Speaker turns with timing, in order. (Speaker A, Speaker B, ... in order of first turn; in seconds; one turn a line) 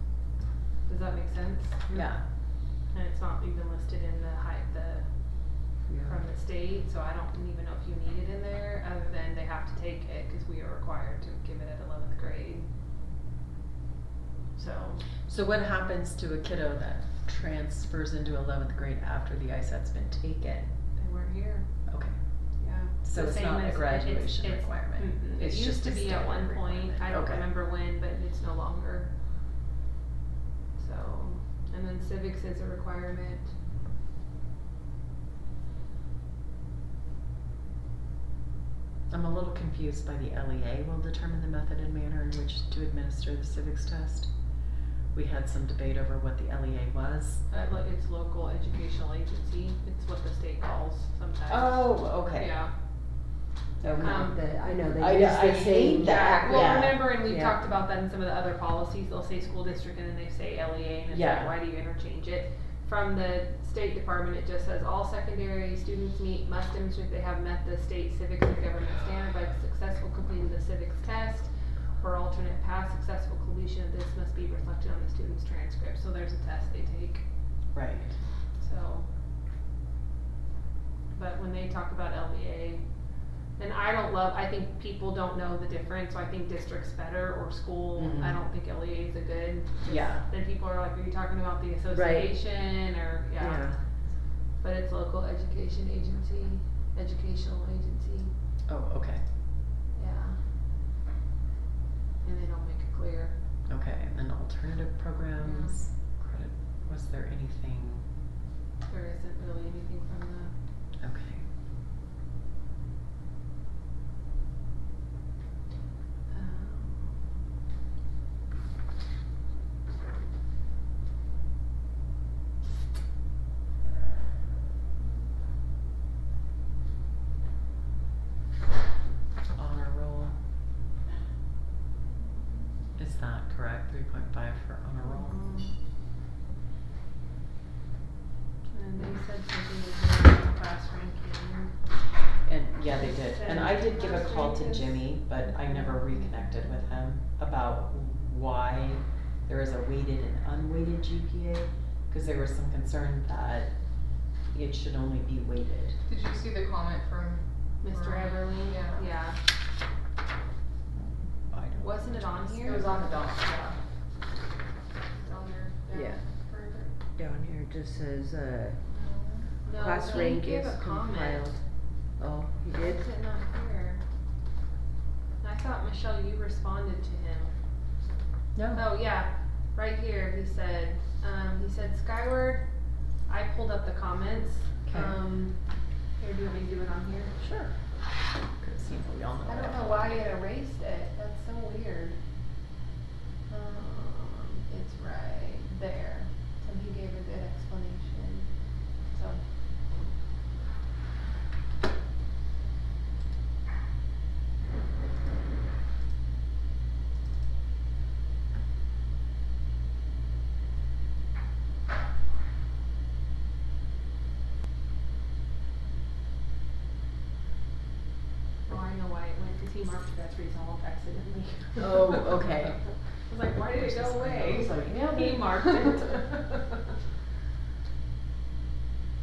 Speaker A: 0.8-12.7
Speaker B: 1.9-2.2
Speaker C: 5.9-6.2
Speaker A: 14.5-15.0
Speaker B: 15.2-20.7
Speaker A: 20.9-21.7
Speaker B: 21.9-22.2
Speaker A: 22.6-29.1
Speaker B: 23.0-27.5
Speaker A: 30.8-33.5
Speaker B: 39.1-44.4
Speaker B: 45.1-47.4
Speaker A: 47.5-52.7
Speaker B: 51.5-52.6
Speaker B: 53.8-54.3
Speaker C: 53.8-57.5
Speaker A: 54.0-54.4
Speaker B: 54.9-57.1
Speaker A: 56.0-77.2
Speaker B: 61.1-61.5
Speaker B: 77.7-78.1
Speaker A: 78.6-79.1
Speaker A: 81.1-82.8
Speaker A: 83.6-93.7
Speaker B: 87.9-88.4
Speaker B: 89.8-90.3
Speaker C: 91.9-92.4
Speaker C: 93.4-93.8
Speaker A: 94.6-98.3
Speaker B: 98.7-99.2
Speaker A: 99.9-100.4
Speaker A: 102.2-103.3
Speaker B: 103.7-108.0
Speaker A: 105.4-105.8
Speaker A: 108.8-110.5
Speaker B: 111.0-111.4
Speaker A: 116.3-117.2
Speaker B: 129.6-130.3
Speaker B: 133.0-135.4
Speaker A: 135.0-135.7
Speaker A: 138.7-141.7
Speaker B: 142.4-153.7
Speaker A: 142.8-147.0
Speaker B: 154.5-156.0
Speaker D: 156.1-159.1
Speaker A: 157.8-159.4
Speaker B: 160.9-162.5
Speaker A: 161.8-163.2
Speaker D: 162.6-163.8
Speaker D: 165.1-166.9
Speaker C: 165.9-166.2
Speaker C: 167.2-168.8
Speaker D: 168.9-169.5
Speaker A: 169.6-171.5
Speaker C: 169.7-171.6
Speaker C: 172.2-173.0
Speaker A: 172.7-174.0
Speaker A: 175.4-177.5
Speaker B: 178.6-178.9
Speaker A: 178.7-182.7
Speaker A: 183.3-185.6
Speaker B: 184.8-185.2
Speaker A: 186.2-187.3
Speaker B: 187.4-187.7
Speaker B: 188.6-190.3
Speaker A: 189.4-192.2
Speaker A: 193.5-198.5
Speaker A: 199.1-199.4
Speaker A: 218.7-222.4
Speaker B: 221.8-223.0
Speaker A: 223.2-226.8
Speaker B: 223.7-226.1